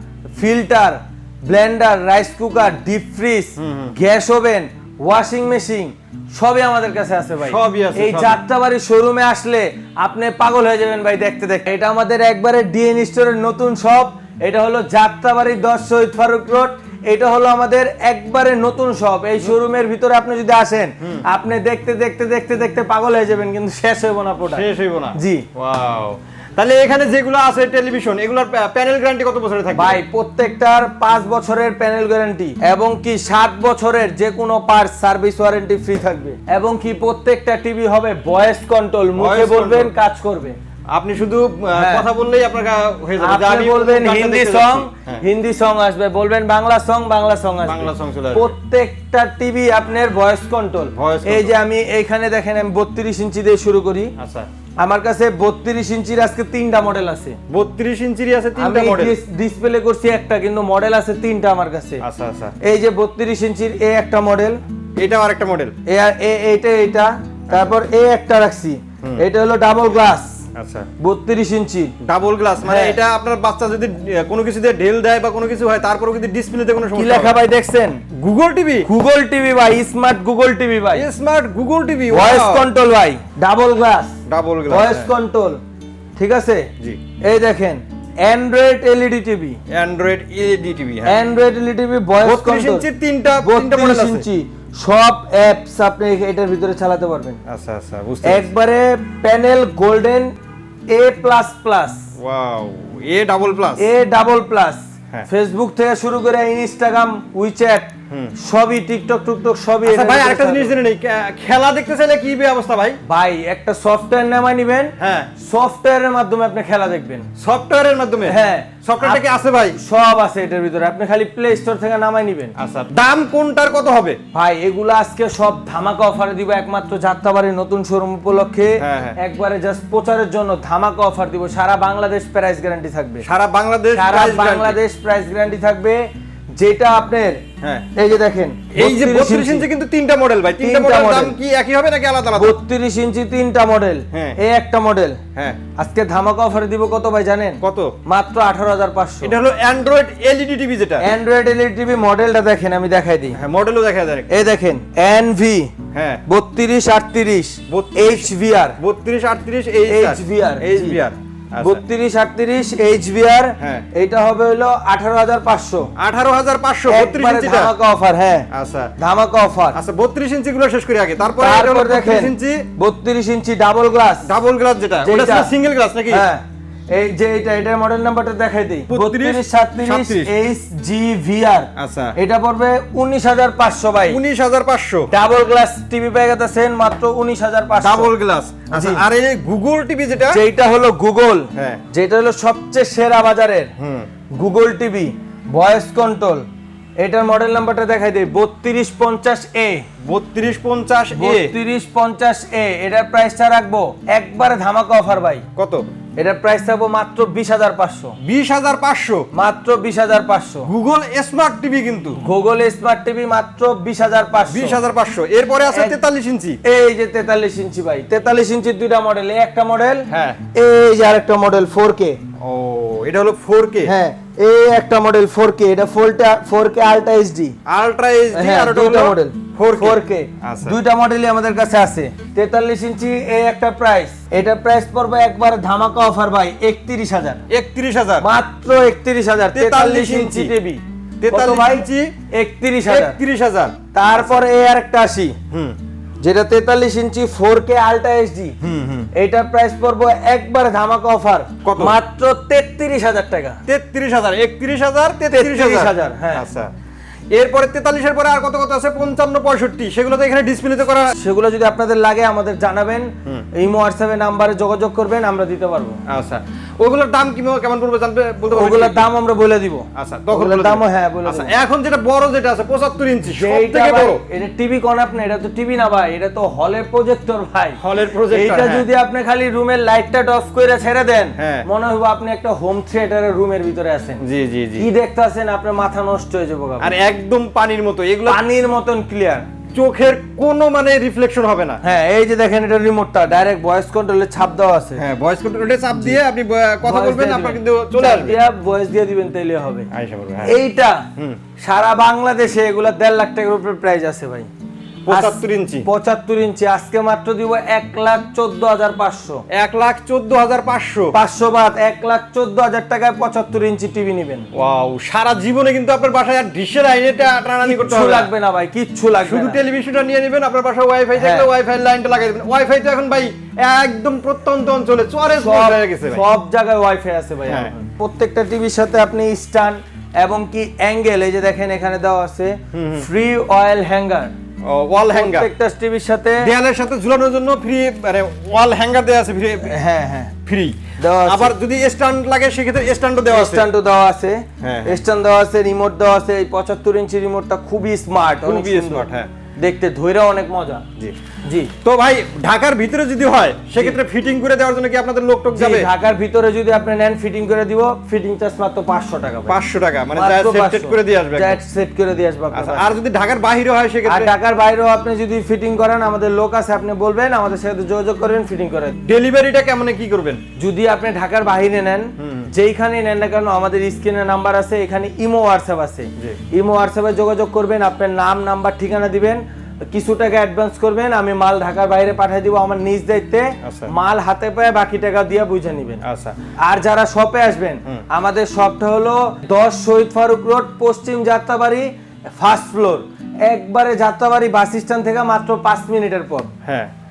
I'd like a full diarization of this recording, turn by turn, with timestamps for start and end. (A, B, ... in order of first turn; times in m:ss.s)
0:00.4-0:25.4 A
0:03.6-0:03.9 B
0:07.4-0:08.4 B
0:24.4-0:30.0 B
0:29.7-0:40.6 A
0:39.2-0:39.9 B
0:40.9-0:45.2 B
0:41.8-0:42.0 A
0:43.2-0:54.1 A
0:47.6-0:48.5 B
0:50.9-0:51.5 B
0:54.2-0:54.5 B
0:54.8-0:57.4 A
0:57.5-0:59.2 B
0:58.6-1:02.0 A
1:02.0-1:02.5 B
1:02.6-1:04.6 A
1:05.0-1:05.7 B
1:05.8-1:10.4 A
1:10.5-1:10.9 B
1:11.0-1:11.9 A
1:12.0-1:17.4 B
1:12.6-1:13.0 A
1:16.9-1:18.0 A
1:18.1-1:18.9 B
1:18.8-1:21.0 A
1:20.9-1:22.7 B
1:22.1-1:24.1 A
1:24.3-1:25.1 B
1:24.7-1:25.6 A
1:26.2-1:26.7 A
1:27.2-1:29.6 A
1:29.7-1:31.2 B
1:31.0-1:32.9 A
1:32.2-1:34.2 B
1:33.4-1:37.4 A
1:37.5-1:38.5 B
1:38.2-1:40.3 A
1:40.9-1:42.0 A
1:42.2-1:43.8 B
1:43.8-1:50.7 A
1:49.8-1:53.0 B
1:53.1-1:57.3 A
1:55.0-1:55.3 B
1:57.4-1:59.8 B
1:58.2-2:02.5 A
2:02.6-2:04.2 B
2:04.3-2:13.2 A
2:08.8-2:09.2 B
2:13.2-2:14.8 B
2:13.9-2:16.0 A
2:16.6-2:19.6 A
2:18.7-2:22.6 B
2:20.6-2:21.3 A
2:22.3-2:25.2 A
2:24.1-2:24.4 B
2:25.8-2:29.3 A
2:27.6-2:27.9 B
2:29.2-2:31.1 B
2:31.0-2:33.4 A
2:33.3-2:34.3 B
2:34.3-2:35.7 A
2:35.9-2:36.2 B
2:36.3-2:38.8 A
2:37.7-2:41.8 B
2:39.8-2:41.0 A
2:41.6-2:45.9 A
2:43.6-2:43.8 B
2:46.0-2:47.7 B
2:46.9-2:49.8 A
2:48.5-2:48.9 B
2:49.7-2:52.6 B
2:51.4-2:54.3 A
2:54.2-2:56.3 B
2:55.0-2:55.5 A
2:56.1-3:04.2 A
2:58.9-3:00.3 B
3:01.8-3:02.1 B
3:04.1-3:05.1 B
3:05.1-3:08.1 A
3:07.8-3:10.4 B
3:08.7-3:09.0 A
3:10.3-3:13.7 A
3:11.5-3:11.8 B
3:13.8-3:14.1 B
3:14.3-3:16.4 A
3:17.0-3:19.8 A
3:20.0-3:21.5 B
3:21.1-3:25.4 A
3:25.6-3:25.8 B
3:26.2-3:28.2 A
3:28.2-3:29.3 B
3:29.3-3:30.7 A
3:30.6-3:32.2 B
3:32.2-3:34.8 A
3:34.5-3:36.6 B
3:35.7-3:36.0 A
3:36.6-3:42.2 A
3:40.1-3:40.4 B
3:42.4-3:43.9 B
3:43.8-3:47.6 A
3:47.6-3:50.8 B
3:48.3-3:57.4 A
3:57.5-3:58.3 B
3:58.2-4:03.2 A
3:59.5-4:00.5 B
4:01.2-4:02.1 B
4:02.8-4:04.4 B
4:03.9-4:05.4 A
4:05.5-4:05.8 B
4:06.2-4:08.6 A
4:08.6-4:09.1 B
4:09.1-4:13.6 A
4:11.6-4:12.0 B
4:13.6-4:16.7 B
4:15.3-4:16.4 A
4:17.3-4:21.1 B
4:21.1-4:26.0 A
4:26.1-4:29.1 B
4:28.5-4:31.5 A
4:29.9-4:34.2 B
4:33.3-4:44.2 A
4:37.8-4:38.9 B
4:41.4-4:41.7 B
4:44.2-4:44.9 B
4:44.8-4:46.9 A
4:46.8-4:48.4 B
4:48.2-4:49.4 A
4:49.7-4:51.8 B
4:51.8-4:55.0 A
4:55.0-4:58.4 B
4:56.8-4:59.9 A
4:59.9-5:00.6 B
5:00.4-5:01.1 A
5:01.6-5:04.5 A
5:05.0-5:05.9 B
5:05.1-5:09.4 A
5:09.5-5:11.1 B
5:11.1-5:14.5 A
5:14.5-5:18.3 B
5:17.6-5:19.6 A
5:19.2-5:26.2 B
5:21.2-5:21.5 A
5:25.3-5:34.3 A
5:27.5-5:27.7 B
5:32.7-5:33.0 B
5:34.6-5:35.5 B
5:35.1-5:36.5 A
5:36.4-5:39.8 B
5:39.6-5:40.3 A
5:40.4-5:43.7 B
5:41.0-5:41.5 A
5:43.3-5:50.8 A
5:44.6-5:45.0 B
5:48.4-5:49.3 B
5:51.4-5:51.7 A
5:51.8-5:55.9 B
5:55.5-5:59.6 A
5:59.5-6:01.6 B
6:00.1-6:02.9 A
6:02.5-6:04.3 B
6:04.0-6:09.0 A
6:09.0-6:10.4 B
6:10.6-6:26.0 A
6:12.2-6:12.5 B
6:23.6-6:23.9 B
6:26.0-6:26.4 B
6:26.6-6:36.5 A
6:36.6-6:36.9 B